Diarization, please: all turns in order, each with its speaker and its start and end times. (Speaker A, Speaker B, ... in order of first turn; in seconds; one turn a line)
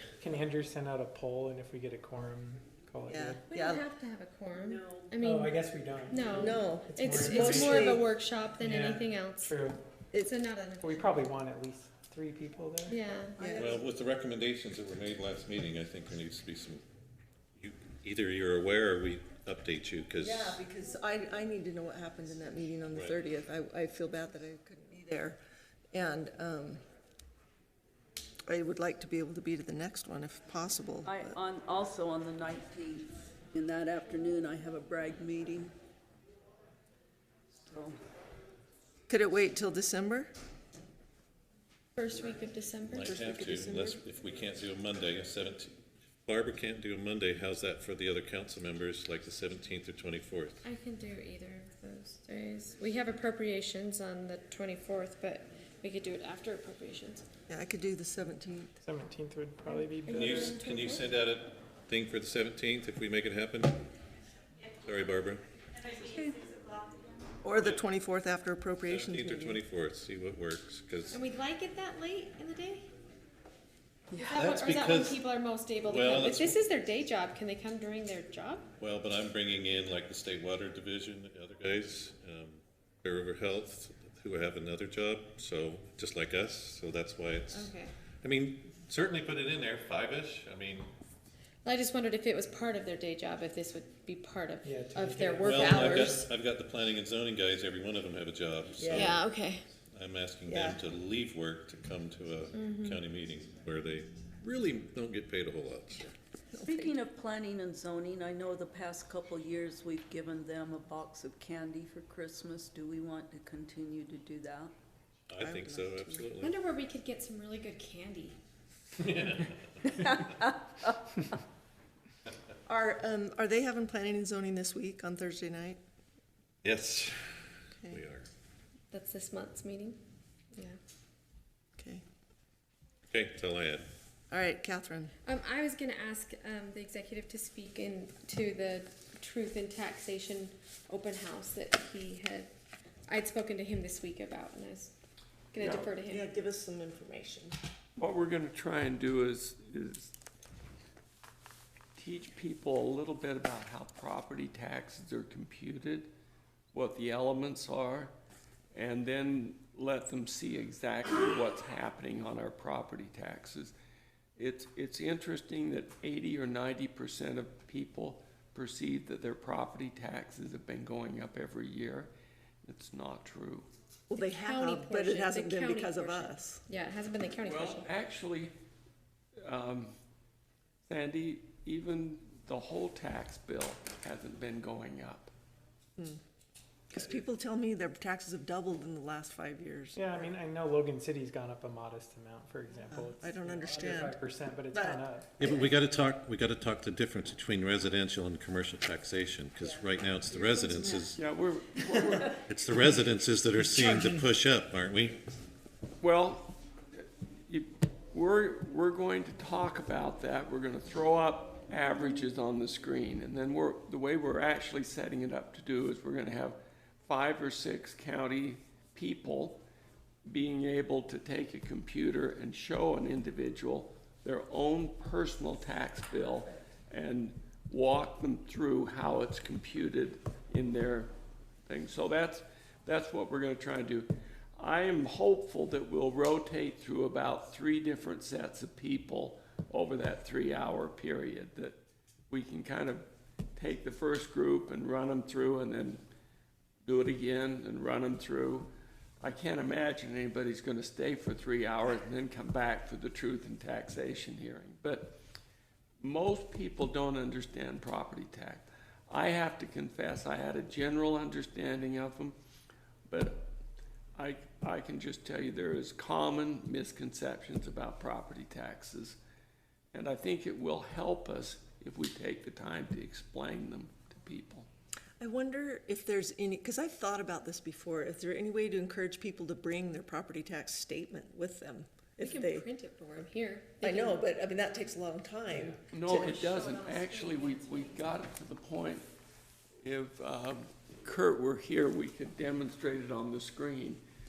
Speaker A: 0.2-3.4
Speaker B: 3.1-3.8
Speaker C: 3.5-9.6
Speaker A: 5.2-8.0
Speaker B: 6.4-8.0
Speaker A: 8.6-9.8
Speaker C: 10.2-11.3
Speaker A: 10.8-13.0
Speaker C: 12.9-13.5
Speaker B: 13.4-13.8
Speaker D: 13.6-16.8
Speaker D: 17.6-20.6
Speaker B: 20.2-25.4
Speaker B: 25.9-26.8
Speaker B: 28.5-31.4
Speaker E: 31.0-35.7
Speaker E: 37.7-37.9
Speaker B: 39.1-40.3
Speaker C: 42.0-43.1
Speaker D: 42.9-45.7
Speaker B: 43.0-44.0
Speaker D: 46.2-50.6
Speaker C: 50.6-57.2
Speaker B: 57.5-58.8
Speaker A: 58.8-60.5
Speaker C: 59.7-61.0
Speaker D: 60.1-63.8
Speaker D: 64.8-65.4
Speaker B: 67.4-69.6
Speaker D: 68.8-71.2
Speaker C: 71.1-72.9
Speaker C: 74.2-78.6
Speaker D: 74.3-75.2
Speaker D: 75.8-76.6
Speaker D: 78.8-90.9
Speaker C: 87.5-87.9
Speaker C: 91.6-96.2
Speaker A: 94.6-96.2
Speaker D: 95.4-99.2
Speaker B: 98.8-99.2
Speaker C: 98.9-99.6
Speaker D: 99.9-106.1
Speaker B: 100.5-100.8
Speaker C: 102.5-103.0
Speaker B: 106.5-107.0
Speaker E: 106.6-114.7
Speaker D: 115.3-116.5
Speaker B: 115.4-116.3
Speaker C: 116.4-118.3
Speaker D: 119.0-119.7
Speaker B: 122.7-125.8
Speaker D: 126.6-128.3
Speaker C: 128.9-130.0
Speaker B: 131.8-132.0
Speaker D: 133.1-133.8
Speaker B: 134.3-135.1
Speaker C: 135.2-142.5
Speaker C: 143.1-144.9
Speaker C: 145.5-146.2
Speaker B: 145.6-147.6
Speaker F: 148.0-150.1
Speaker F: 151.9-156.1
Speaker F: 156.7-158.1
Speaker F: 158.7-163.7
Speaker F: 164.4-172.1
Speaker F: 172.6-173.7
Speaker B: 174.1-176.6
Speaker C: 174.2-177.9
Speaker F: 177.4-178.5
Speaker F: 179.4-179.9
Speaker F: 180.9-185.3
Speaker B: 186.9-190.3
Speaker A: 189.9-195.3
Speaker B: 192.9-194.2
Speaker B: 194.7-195.7
Speaker D: 195.4-201.2
Speaker F: 201.2-202.5
Speaker D: 202.5-205.2
Speaker B: 203.6-204.2
Speaker F: 206.0-206.5
Speaker F: 207.5-219.6
Speaker F: 220.3-231.1
Speaker F: 231.7-241.8
Speaker F: 242.3-246.0
Speaker F: 246.8-248.7
Speaker F: 249.2-255.2
Speaker F: 256.0-262.4
Speaker F: 263.1-263.5
Speaker F: 264.1-269.2
Speaker F: 269.9-274.7
Speaker B: 275.2-282.7
Speaker C: 282.2-284.2
Speaker B: 283.8-287.7
Speaker F: 285.9-289.0
Speaker F: 289.8-294.0